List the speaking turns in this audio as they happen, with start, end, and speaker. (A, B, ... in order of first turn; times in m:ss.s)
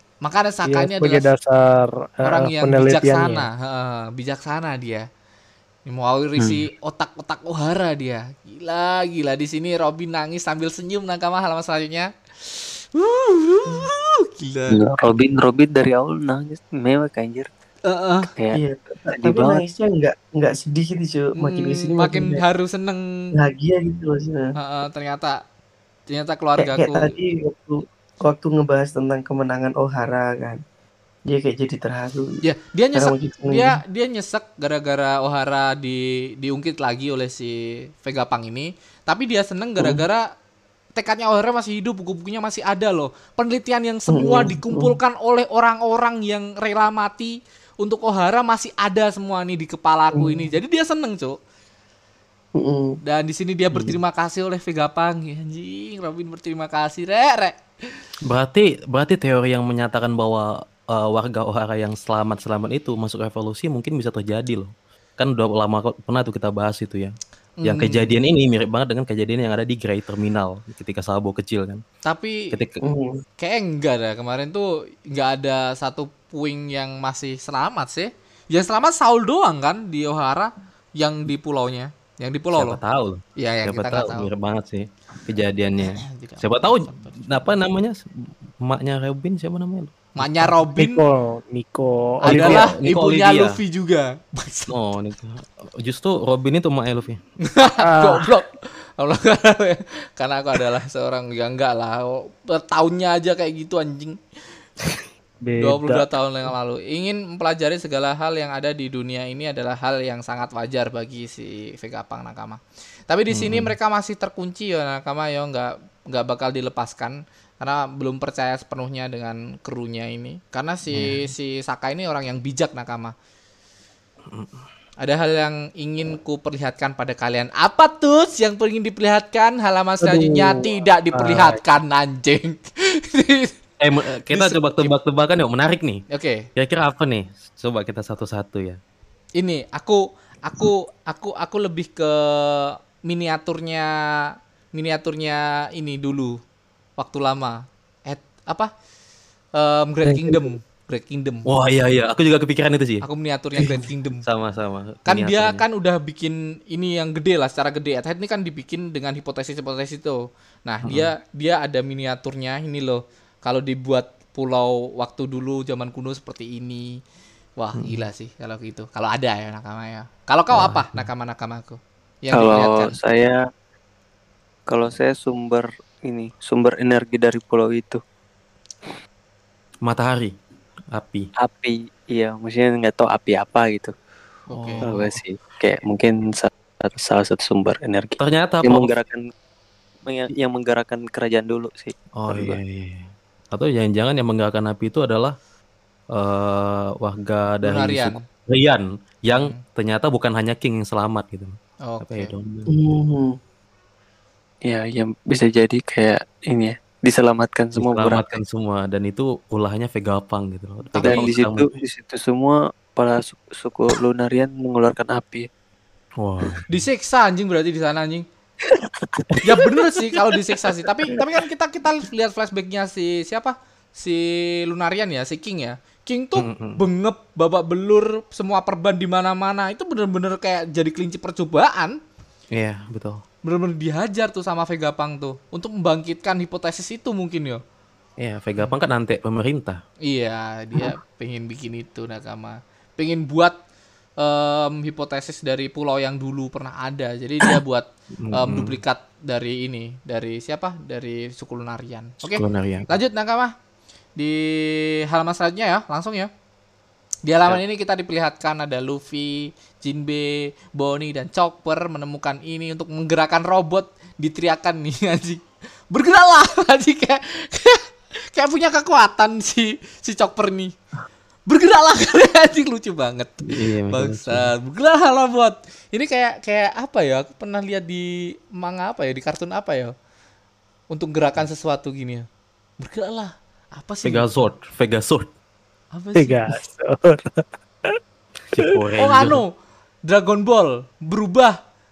0:00.2-0:01.2 A
0:00.6-0:03.4 B
0:02.2-0:05.0 A
0:05.9-0:14.8 A
0:14.7-0:17.5 C
0:17.9-0:18.3 A
0:18.5-0:22.4 D
0:19.1-0:19.6 C
0:21.4-0:23.0 A
0:23.4-0:24.5 D
0:24.6-0:25.4 A
0:26.1-0:27.1 A
0:26.6-0:30.6 D
0:31.3-0:32.4 D
0:32.4-0:40.2 A
0:33.0-0:33.8 D
0:41.0-0:51.4 A
0:44.1-0:44.9 D
0:50.2-0:50.5 D
0:52.6-0:53.0 D
0:53.0-0:57.6 A
0:58.3-1:11.8 E
1:07.6-1:08.1 A
1:12.0-1:12.5 A
1:12.5-1:12.8 E
1:12.8-1:13.2 D
1:13.4-1:22.8 A
1:22.6-1:28.0 E
1:23.4-1:24.3 A
1:25.8-1:27.2 A
1:28.6-1:30.6 E
1:30.2-1:31.0 A
1:30.8-1:32.7 B
1:32.2-1:34.7 A
1:32.3-1:33.6 E
1:34.7-1:37.2 E
1:37.5-1:44.2 A
1:37.8-1:38.2 B
1:45.4-1:46.1 B
1:45.6-2:03.1 A
1:53.3-1:53.8 E
2:00.9-2:01.3 E
2:04.3-2:04.6 E
2:05.0-2:13.5 A
2:10.0-2:11.6 B
2:13.8-2:16.0 E
2:14.3-2:14.9 A
2:16.1-2:16.5 A
2:16.6-2:18.8 E
2:19.4-2:23.9 A
2:24.7-2:26.4 A
2:27.0-2:28.7 A
2:29.6-2:31.5 A
2:31.5-2:33.0 E
2:33.0-2:34.2 A
2:33.7-2:35.6 E
2:35.1-2:46.9 A
2:40.8-2:41.1 E
2:47.6-2:53.0 A
2:50.5-2:51.0 E
2:52.3-2:53.4 C
2:54.7-2:58.0 C
2:59.8-3:00.3 E
3:00.9-3:01.3 E
3:01.4-3:03.9 C
3:04.5-3:04.9 A
3:04.8-3:09.2 C
3:08.2-3:08.9 E
3:10.1-3:12.6 C
3:12.2-3:15.4 E
3:16.1-3:22.7 E
3:17.6-3:18.2 A
3:19.3-3:19.6 A
3:21.8-3:22.3 A
3:22.7-3:23.4 D
3:24.7-3:28.4 C
3:27.8-3:31.6 E
3:31.0-3:31.2 A
3:31.0-3:35.5 C
3:31.3-3:31.6 D
3:36.2-3:36.8 E
3:36.7-3:38.2 A
3:38.7-3:39.4 D
3:39.4-3:52.0 A
3:46.4-3:46.8 E
3:52.5-3:53.2 E
3:53.5-3:57.6 A
3:58.2-3:59.8 E
4:00.1-4:03.6 A
4:04.2-4:13.5 A
4:08.2-4:08.8 E
4:12.2-4:12.9 E
4:14.2-4:16.3 A
4:17.3-4:30.7 A
4:31.5-4:39.9 A
4:33.5-4:34.5 E
4:40.9-4:42.3 A
4:42.8-4:44.5 A
4:44.0-4:45.3 E
4:46.0-4:46.5 A
4:46.2-4:48.0 B
4:48.5-4:49.4 E
4:49.0-4:49.5 A
4:50.1-4:51.6 A